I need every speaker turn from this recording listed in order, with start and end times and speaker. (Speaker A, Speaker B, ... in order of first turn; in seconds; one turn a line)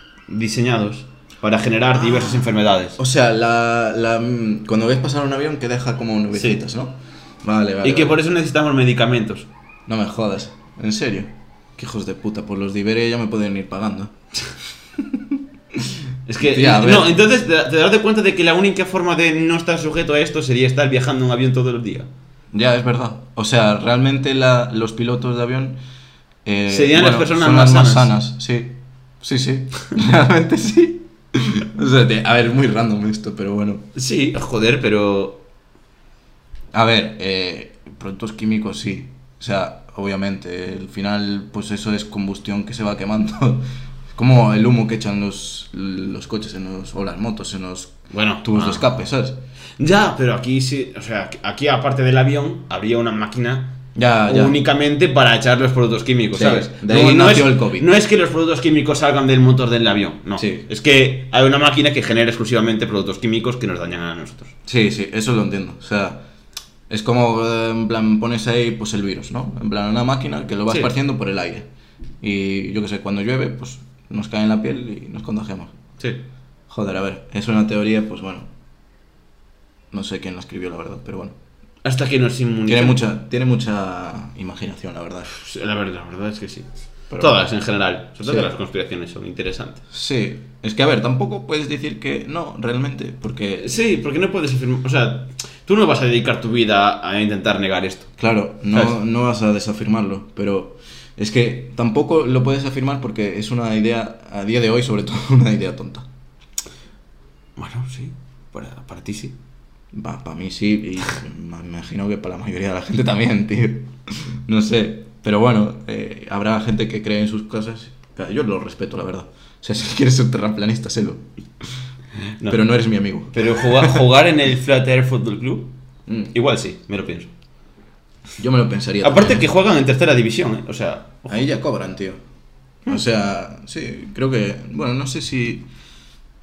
Speaker A: 0.3-3.0
Speaker B: 3.0-8.2
Speaker A: 7.8-9.5
Speaker B: 9.9-14.1
Speaker B: 15.0-16.0
Speaker A: 16.3-22.1
Speaker B: 16.5-17.2
Speaker B: 22.5-25.8
Speaker B: 26.4-33.8
Speaker A: 26.7-28.1
Speaker A: 34.0-35.4
Speaker B: 36.7-49.4
Speaker A: 48.1-48.9
Speaker A: 49.8-53.8
Speaker B: 54.0-54.6
Speaker A: 54.3-64.5
Speaker B: 56.3-57.9
Speaker B: 60.4-60.6
Speaker B: 64.7-66.2
Speaker B: 66.9-71.7
Speaker B: 72.2-75.7
Speaker B: 76.7-78.5
Speaker B: 79.9-81.3
Speaker A: 81.8-83.0
Speaker B: 82.7-85.3
Speaker A: 85.3-89.8
Speaker B: 87.1-87.4
Speaker B: 88.2-88.5
Speaker B: 89.9-93.7
Speaker A: 93.6-98.1
Speaker B: 98.2-106.1
Speaker A: 98.7-99.0
Speaker A: 107.6-109.4
Speaker B: 109.9-121.2
Speaker B: 122.5-124.0
Speaker A: 123.3-125.7
Speaker B: 126.1-126.3
Speaker A: 126.3-127.3
Speaker B: 128.4-129.4
Speaker A: 129.0-131.5
Speaker B: 131.3-132.2
Speaker B: 132.9-135.7